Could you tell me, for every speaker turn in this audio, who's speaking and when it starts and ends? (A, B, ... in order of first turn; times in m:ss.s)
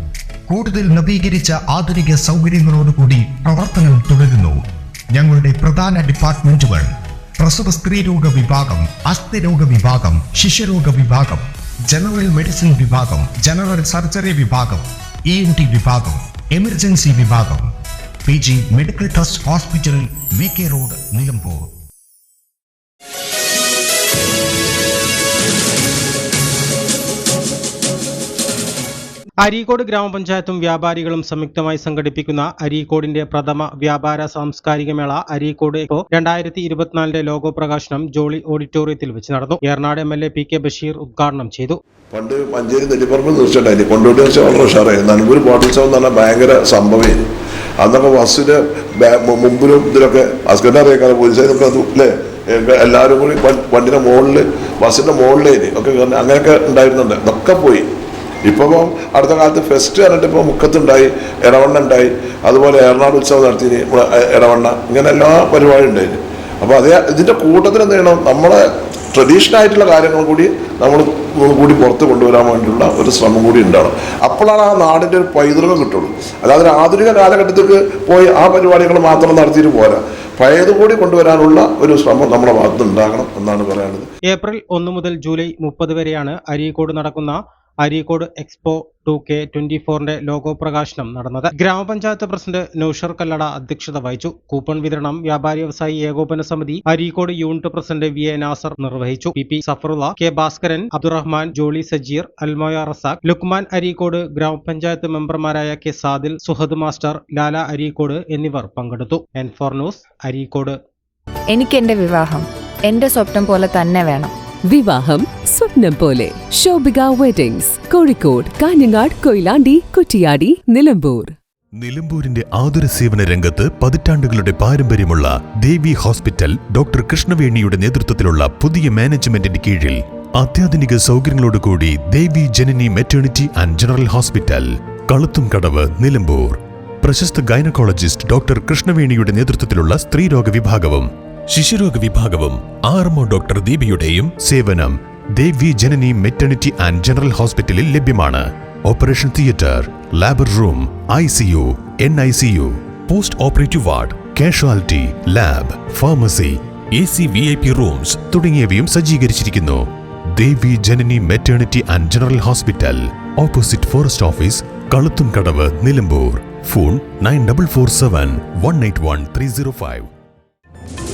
0:00.5-0:04.6 A
0:05.1-0:06.9 A
0:07.4-0:17.7 A
0:18.3-0:21.7 A
0:29.4-0:41.8 B
0:42.1-0:47.2 C
0:47.8-0:57.8 C
0:58.5-1:08.6 C
1:09.1-1:24.1 C
1:24.3-1:50.8 B
1:51.5-1:54.3 D
1:54.7-2:01.4 E
2:01.7-2:39.8 F
2:40.4-2:50.1 F